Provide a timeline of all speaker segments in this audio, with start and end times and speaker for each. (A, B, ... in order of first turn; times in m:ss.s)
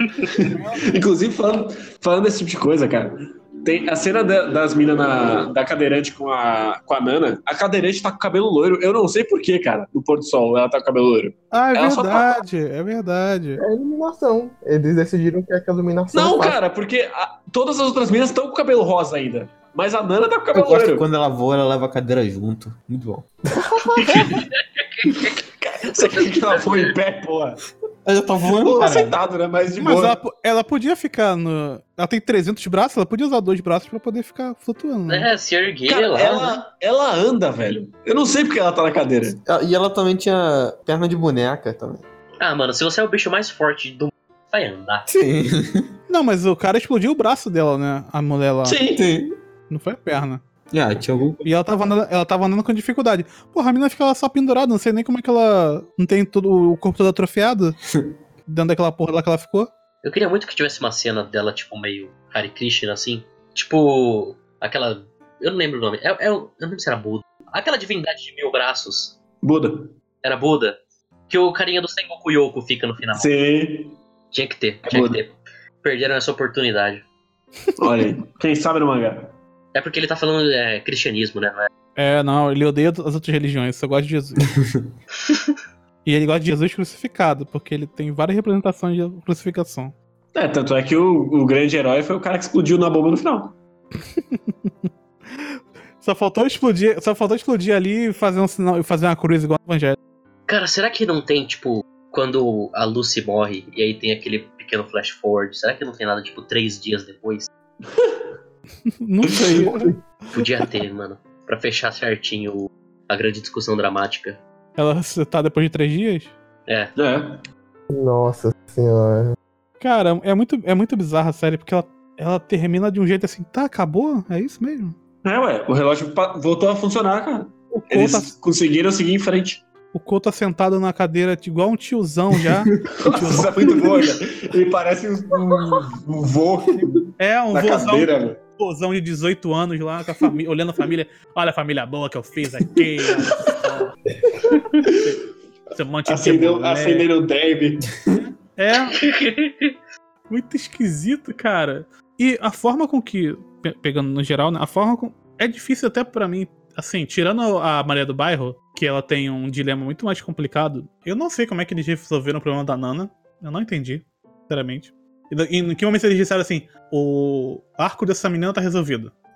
0:00.2-0:12.3 A
0:00.5-0:00.8 B
0:11.5-0:13.6 B
0:13.6-0:16.6 C
0:16.1-0:21.1 A
0:20.5-0:23.3 D
0:23.7-0:24.2 C
0:24.0-0:25.4 E
0:25.4-0:27.6 A
0:26.1-0:26.9 E
0:28.0-0:29.2 D
0:28.6-0:30.2 A
0:29.8-0:35.3 B
0:35.1-0:36.6 E
0:35.9-0:39.4 A
0:39.5-0:42.0 D
0:42.4-0:45.1 E
0:45.1-0:45.9 D
0:46.1-0:48.8 B
0:48.6-0:49.0 A
0:48.9-0:49.4 D
0:49.7-0:50.4 B
0:50.7-0:51.5 D
0:51.4-0:57.8 B
0:58.5-0:59.7 B
1:00.0-1:09.2 E
1:09.4-1:10.0 A
1:10.2-1:10.8 E
1:11.3-1:13.3 E
1:13.1-1:14.0 A
1:14.3-1:17.0 E
1:14.9-1:15.2 A
1:17.8-1:19.4 A
1:19.7-1:21.7 E
1:22.0-1:24.6 B
1:26.0-1:29.9 B
1:30.3-1:33.6 A
1:35.4-1:40.0 B
1:40.5-1:47.5 E
1:47.9-1:48.2 A
1:48.9-1:49.9 B
1:49.6-1:50.0 C
1:50.3-1:54.4 E
1:54.8-1:56.3 B
1:56.7-1:56.9 E
1:57.0-1:57.4 A
1:57.9-1:59.4 C
1:59.8-2:05.0 B
2:05.2-2:09.6 A
2:07.7-2:08.3 B
2:09.9-2:13.9 B
2:13.0-2:18.4 A
2:17.2-2:23.9 B
2:24.5-2:24.9 E
2:24.9-2:25.1 A
2:25.7-2:27.1 B
2:26.1-2:28.0 A
2:28.6-2:29.0 B
2:28.9-2:29.7 E
2:30.3-2:49.1 B